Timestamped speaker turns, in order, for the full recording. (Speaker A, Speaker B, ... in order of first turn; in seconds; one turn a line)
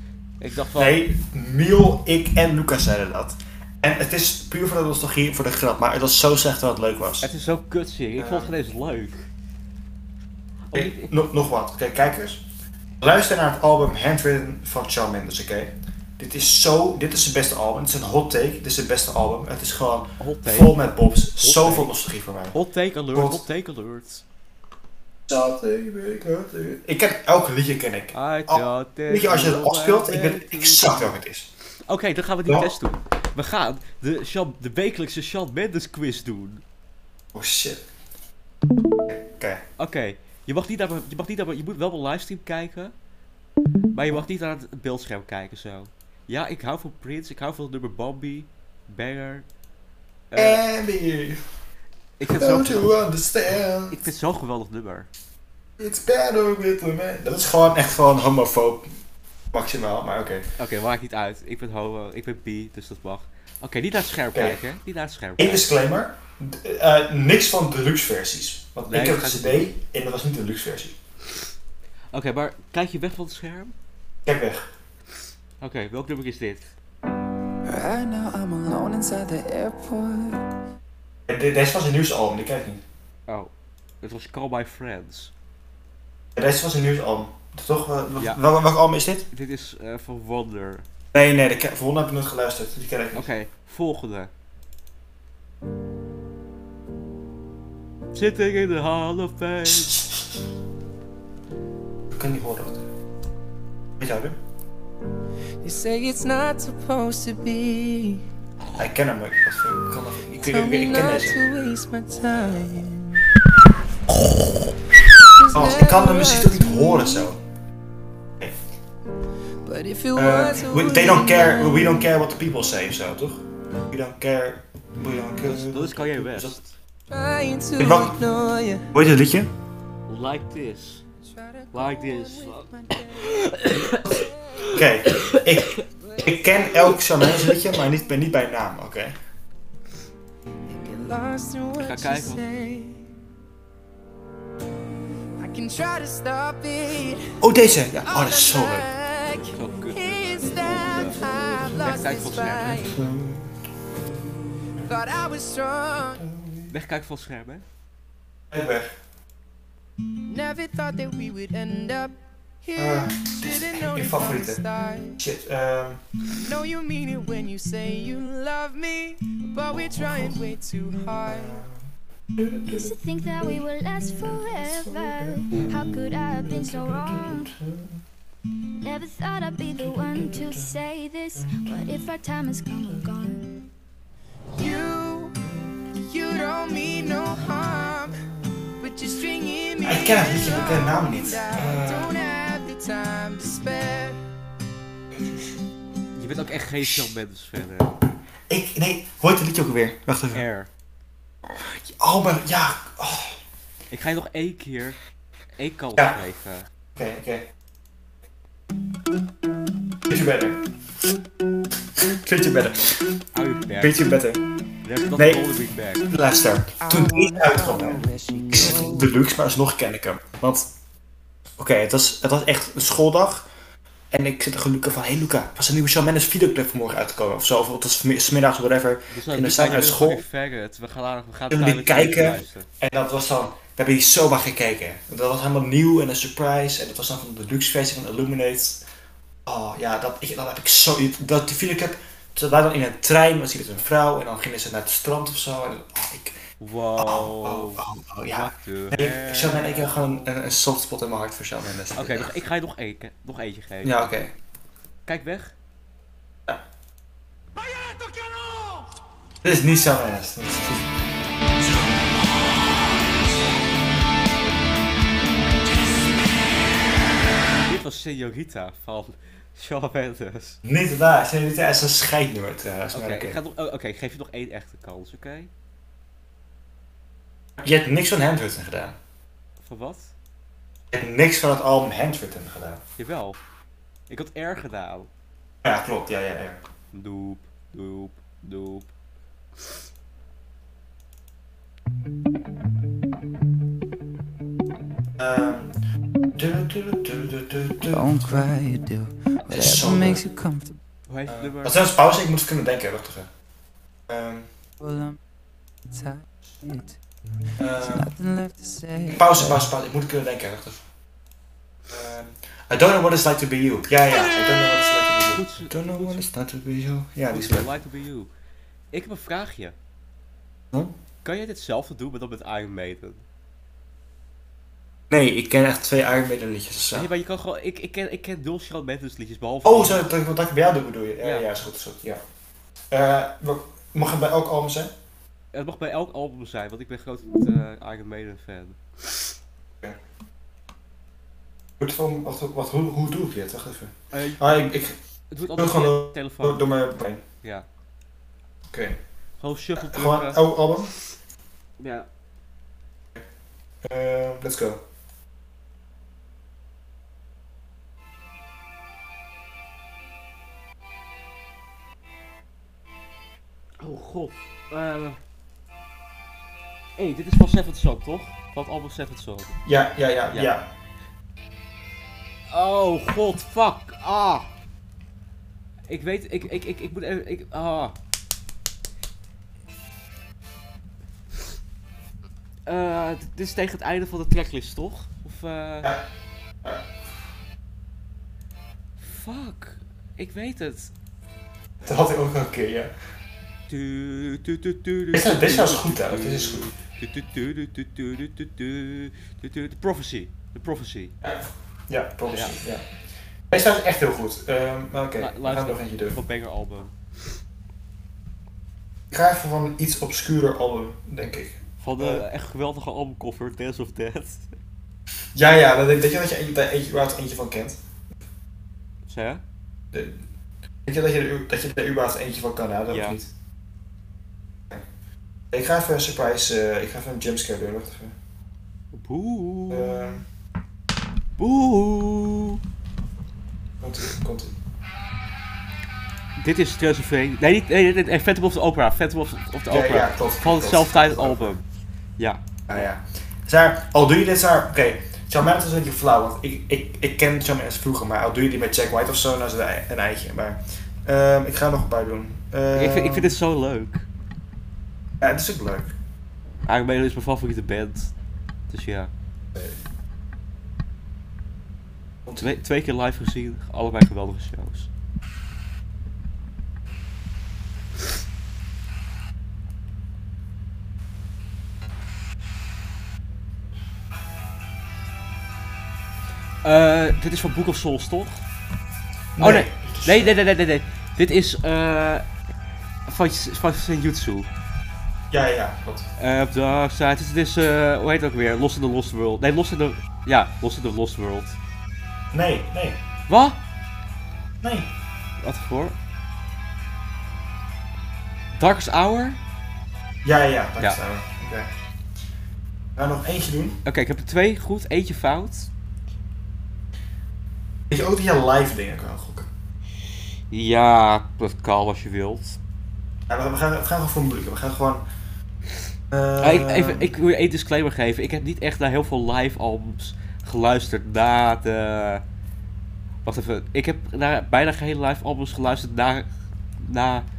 Speaker A: 0.4-1.0
Speaker B: 0.8-7.3
Speaker A: 7.2-9.3
Speaker B: 8.2-8.5
Speaker A: 10.7-11.1
Speaker B: 10.7-12.4
Speaker B: 13.0-22.6
Speaker A: 20.2-20.8
Speaker A: 21.4-21.9
Speaker A: 22.5-24.2
Speaker B: 23.1-23.4
Speaker B: 25.3-31.5
Speaker A: 28.1-31.1
Speaker A: 31.9-36.6
Speaker B: 32.5-32.7
Speaker B: 37.3-37.8
Speaker B: 39.1-39.6
Speaker A: 39.8-42.9
Speaker A: 43.9-49.5
Speaker A: 50.3-50.6
Speaker B: 50.3-51.4
Speaker A: 52.2-53.0
Speaker B: 52.2-54.0
Speaker A: 53.9-55.1
Speaker B: 55.8-58.9
Speaker B: 59.5-60.5
Speaker A: 60.6-65.7
Speaker B: 64.3-64.6
Speaker B: 65.4-71.0
Speaker A: 68.9-69.7
Speaker A: 72.1-73.7
Speaker B: 74.3-74.7
Speaker A: 75.6-76.7
Speaker C: 77.7-80.4
Speaker B: 81.3-82.8
Speaker A: 83.3-85.3
Speaker B: 86.4-89.3
Speaker A: 89.3-90.9
Speaker B: 91.1-93.3
Speaker A: 93.1-94.3
Speaker A: 98.1-100.0
Speaker B: 102.1-102.8
Speaker B: 104.0-104.4
Speaker C: 105.6-108.2
Speaker B: 108.8-111.4
Speaker C: 110.5-113.2
Speaker C: 115.3-117.3
Speaker B: 115.5-117.4
Speaker C: 119.6-122.0
Speaker B: 120.2-126.6
Speaker A: 125.4-126.7
Speaker C: 127.1-128.9
Speaker B: 127.8-128.2
Speaker B: 128.9-129.5
Speaker A: 130.1-131.0
Speaker C: 131.2-134.7
Speaker A: 131.7-132.7
Speaker A: 133.2-134.2
Speaker B: 134.7-139.2
Speaker A: 134.7-135.4
Speaker C: 136.1-136.9
Speaker C: 140.7-143.1
Speaker A: 141.8-142.4
Speaker C: 145.4-147.2
Speaker B: 147.4-148.9
Speaker C: 148.0-153.0
Speaker A: 149.5-152.9
Speaker B: 152.8-153.6
Speaker C: 154.8-156.2
Speaker B: 156.2-156.7
Speaker A: 156.7-157.7
Speaker B: 158.5-158.9
Speaker C: 160.3-165.2
Speaker B: 162.8-164.6
Speaker B: 165.2-166.0
Speaker C: 166.3-171.6
Speaker B: 169.7-170.4
Speaker B: 171.3-171.8
Speaker B: 172.3-172.9
Speaker D: 172.7-177.5
Speaker B: 174.4-178.0
Speaker D: 178.8-183.5
Speaker B: 179.9-180.7
Speaker B: 181.4-181.9
Speaker C: 184.6-185.4
Speaker C: 186.0-194.2
Speaker B: 189.8-192.1
Speaker A: 196.2-197.9
Speaker B: 198.5-200.5
Speaker A: 200.3-200.7
Speaker B: 201.5-203.4
Speaker A: 203.9-205.0
Speaker A: 205.6-206.7
Speaker B: 206.9-207.5
Speaker B: 210.1-210.6
Speaker B: 212.0-213.1
Speaker A: 213.3-214.0
Speaker B: 213.8-214.4
Speaker A: 214.8-216.1
Speaker B: 215.1-215.4
Speaker B: 216.1-220.7
Speaker C: 216.8-219.1
Speaker B: 221.6-223.5
Speaker B: 224.1-230.2
Speaker A: 229.1-232.7
Speaker B: 231.5-238.8
Speaker B: 239.5-246.4
Speaker A: 246.6-250.1
Speaker B: 247.0-252.3
Speaker A: 251.9-254.1
Speaker B: 253.8-254.3
Speaker A: 255.1-255.5
Speaker B: 259.4-260.9
Speaker A: 267.6-270.6
Speaker B: 270.6-273.4
Speaker A: 272.9-275.5
Speaker B: 277.6-279.0
Speaker A: 279.6-280.1
Speaker B: 280.9-282.8
Speaker A: 283.0-283.4
Speaker A: 284.1-285.1
Speaker B: 285.6-286.6
Speaker A: 286.9-288.9
Speaker B: 295.2-295.8
Speaker B: 296.4-298.4
Speaker C: 297.9-300.8
Speaker B: 299.5-300.2
Speaker A: 301.1-301.8
Speaker B: 301.3-303.3
Speaker B: 304.1-304.5
Speaker C: 304.8-305.2
Speaker C: 305.9-307.0
Speaker B: 307.6-308.1
Speaker C: 307.8-309.6
Speaker B: 309.1-310.8
Speaker B: 311.9-317.7
Speaker A: 315.3-316.3
Speaker A: 317.3-318.3
Speaker A: 318.9-319.8
Speaker A: 321.2-323.2
Speaker B: 325.1-327.1
Speaker A: 326.9-330.1
Speaker B: 329.6-332.2
Speaker A: 331.2-331.5
Speaker B: 332.9-334.9
Speaker A: 335.5-339.2
Speaker B: 341.8-345.0
Speaker A: 344.1-344.4
Speaker A: 345.3-346.6
Speaker B: 345.5-347.2
Speaker B: 348.7-349.0
Speaker A: 349.4-350.4
Speaker B: 349.8-350.9
Speaker A: 351.8-352.1
Speaker B: 353.8-354.8
Speaker A: 363.8-365.2
Speaker A: 367.0-369.6
Speaker B: 369.6-370.7
Speaker A: 372.5-374.5
Speaker A: 375.9-378.0
Speaker A: 382.7-386.0
Speaker A: 389.0-390.9
Speaker B: 391.8-392.9
Speaker A: 393.7-401.2
Speaker B: 395.1-396.7
Speaker B: 401.2-402.9
Speaker A: 402.3-402.6
Speaker B: 403.5-406.2
Speaker A: 405.2-406.9
Speaker B: 409.1-412.2
Speaker A: 411.8-414.5
Speaker B: 415.3-417.8
Speaker A: 419.1-419.4
Speaker B: 419.9-420.2
Speaker B: 420.9-423.3
Speaker A: 422.9-423.2
Speaker B: 425.5-428.1
Speaker A: 428.9-430.2
Speaker B: 429.7-430.2
Speaker A: 431.4-432.6
Speaker B: 433.8-434.6
Speaker A: 436.4-441.6
Speaker B: 439.7-441.5
Speaker B: 442.7-453.4
Speaker A: 452.7-454.1
Speaker B: 455.2-455.9
Speaker A: 456.7-458.1
Speaker A: 458.7-459.1
Speaker A: 462.4-464.9
Speaker A: 476.6-478.4
Speaker B: 479.4-480.4
Speaker A: 479.4-482.3
Speaker A: 483.1-484.5
Speaker B: 485.3-486.1
Speaker A: 486.2-491.6
Speaker B: 492.3-493.0
Speaker A: 493.3-493.6
Speaker B: 494.6-494.9
Speaker A: 495.4-496.0
Speaker A: 498.5-499.4
Speaker B: 500.2-501.7
Speaker B: 503.0-503.8
Speaker A: 503.9-505.7
Speaker B: 507.9-509.5
Speaker A: 510.5-512.6
Speaker B: 513.3-515.0
Speaker B: 516.1-517.1
Speaker A: 516.4-522.2
Speaker A: 523.2-526.3
Speaker A: 526.8-527.3